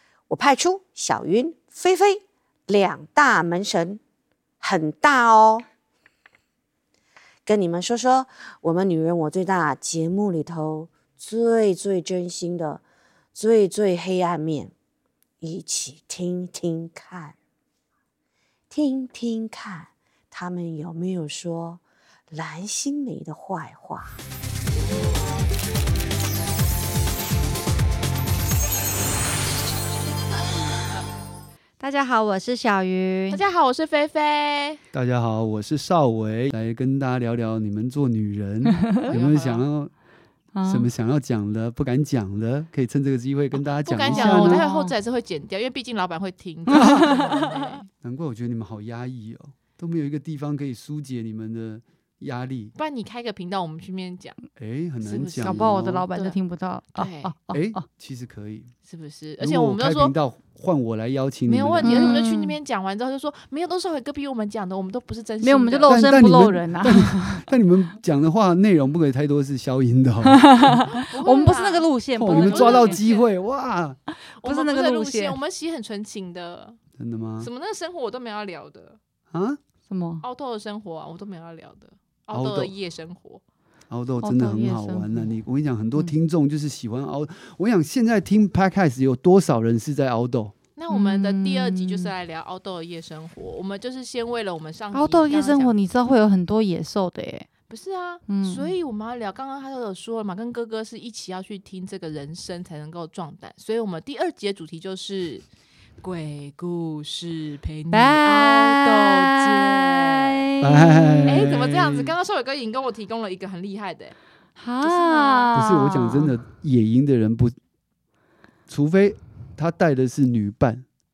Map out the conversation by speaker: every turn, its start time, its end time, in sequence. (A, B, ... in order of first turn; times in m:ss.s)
0:00.3-0:04.0 A
0:04.6-0:05.6 A
0:07.5-0:12.8 A
0:13.4-0:14.7 A
0:15.4-0:17.4 A
0:18.7-0:24.1 A
0:31.8-0:33.4 B
0:33.3-0:34.8 C
0:34.9-0:39.9 D
0:38.7-0:39.1 B
0:39.0-0:39.6 C
0:40.6-0:40.9 B
0:40.7-0:44.6 D
0:43.5-0:47.9 C
0:44.1-0:45.0 B
0:46.7-0:47.2 D
0:46.7-0:47.5 B
0:48.0-0:52.7 D
0:52.8-0:54.4 C
0:54.6-0:56.0 D
0:55.0-0:56.4 C
0:55.4-0:57.8 B
0:57.0-0:57.3 C
0:57.5-0:58.7 D
0:58.9-1:00.1 C
0:59.4-1:02.2 D
1:01.5-1:06.0 C
1:01.8-1:02.6 B
1:05.4-1:07.5 B
1:05.9-1:10.8 D
1:10.2-1:13.0 B
1:10.9-1:13.3 C
1:12.2-1:14.0 D
1:14.2-1:15.4 B
1:14.4-1:16.8 C
1:17.0-1:17.5 D
1:17.4-1:19.0 C
1:19.3-1:19.6 D
1:19.9-1:20.2 B
1:20.2-1:23.4 C
1:22.3-1:22.7 D
1:23.9-1:30.5 D
1:24.2-1:25.3 B
1:30.8-1:35.7 C
1:30.9-1:32.1 B
1:34.9-1:37.5 B
1:37.7-1:45.4 C
1:38.3-1:38.7 B
1:46.0-1:50.4 C
1:47.9-1:51.5 B
1:50.6-1:52.1 D
1:51.3-1:54.2 C
1:54.6-1:56.3 B
1:54.8-1:55.5 C
1:55.5-1:57.6 D
1:58.7-2:00.8 D